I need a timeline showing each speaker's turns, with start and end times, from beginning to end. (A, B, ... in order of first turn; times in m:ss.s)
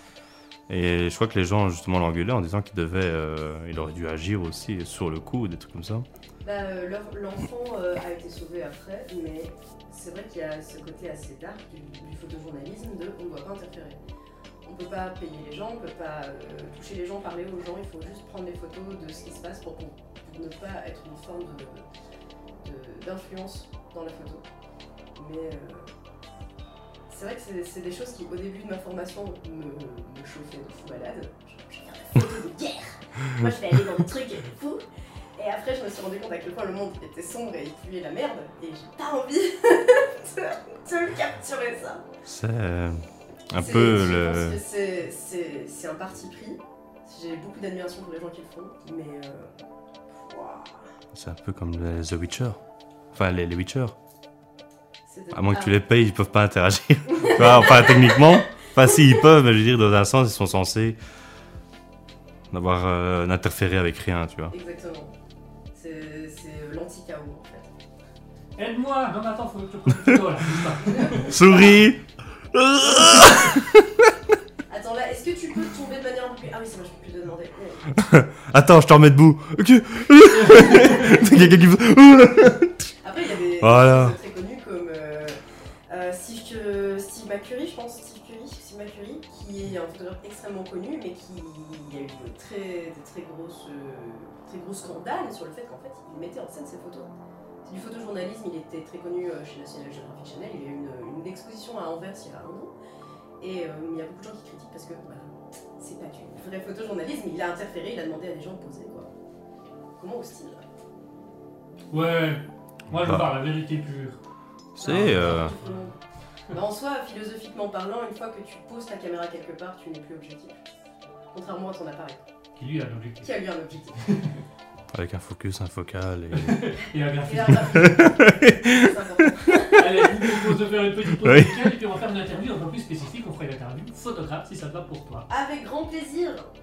0:00.7-0:06.1 A
0:06.4-0:14.0 B
0:14.6-0:21.9 B
0:22.6-0:24.4 B
0:25.2-0:25.9 B
0:27.1-0:34.8 B
0:35.4-0:42.1 B
0:42.2-0:44.6 A
0:43.6-0:49.5 B
0:50.1-0:50.9 B
0:51.1-0:52.6 A
0:53.1-0:54.0 A
0:55.1-0:55.8 B
0:55.3-1:01.0 A
0:57.1-0:58.4 B
1:02.5-1:04.5 A
1:04.5-1:05.1 B
1:05.7-1:07.7 B
1:08.6-1:11.3 C
1:10.9-1:11.8 B
1:11.2-1:12.0 A
1:12.5-1:14.1 A
1:14.7-1:17.9 B
1:18.0-1:22.8 A
1:20.3-1:21.1 C
1:23.0-1:25.4 B
1:23.6-1:24.2 A
1:25.9-1:37.1 B
1:37.6-1:42.7 B
1:43.4-1:49.1 B
1:50.0-1:50.6 B
1:51.9-1:54.2 C
1:52.9-1:53.3 A
1:54.8-1:55.5 A
1:54.8-1:55.9 B
1:54.8-1:56.0 C
1:56.5-2:00.6 B
2:01.3-2:02.2 B
2:02.6-2:03.3 C
2:03.2-2:04.0 B
2:04.1-2:04.3 C
2:04.9-2:06.7 A
2:06.3-2:07.9 C
2:07.2-2:10.1 B
2:07.6-2:08.9 A
2:09.8-2:15.3 C
2:11.2-2:11.7 A
2:15.3-2:16.5 B